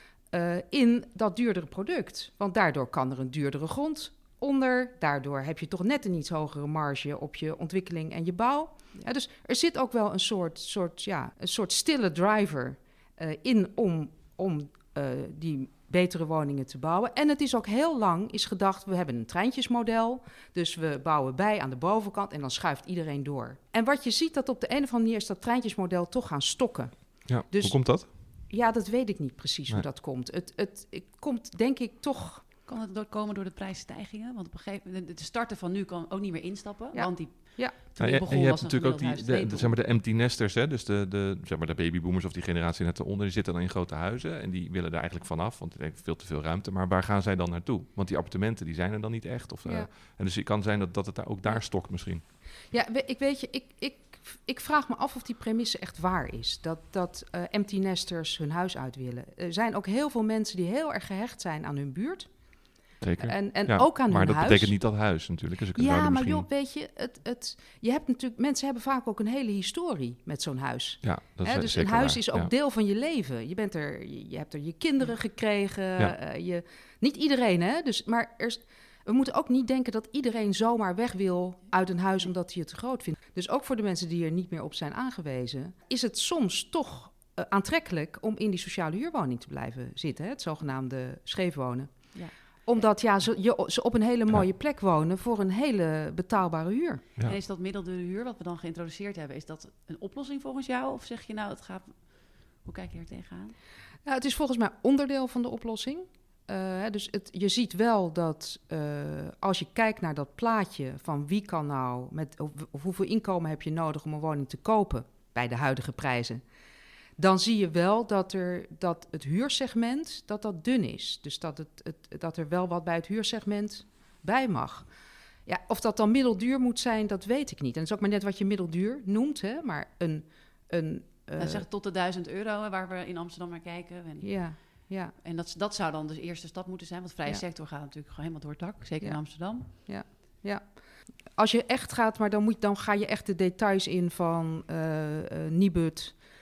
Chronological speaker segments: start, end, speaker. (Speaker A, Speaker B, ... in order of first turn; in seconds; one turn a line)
Speaker A: 0.3-32.4
Speaker B: 27.2-28.1
Speaker C: 32.7-39.7
Speaker A: 36.9-37.8
Speaker B: 38.0-52.2
Speaker A: 49.6-49.9
Speaker A: 52.7-62.3
Speaker B: 63.0-66.5
Speaker A: 63.2-64.8
Speaker A: 65.8-97.0
Speaker B: 71.0-72.5
Speaker C: 97.2-103.5
Speaker A: 104.1-116.4
Speaker A: 117.2-124.9
Speaker A: 125.5-131.6
Speaker C: 131.4-139.7
Speaker A: 134.2-135.1
Speaker A: 139.0-140.8
Speaker A: 141.3-146.2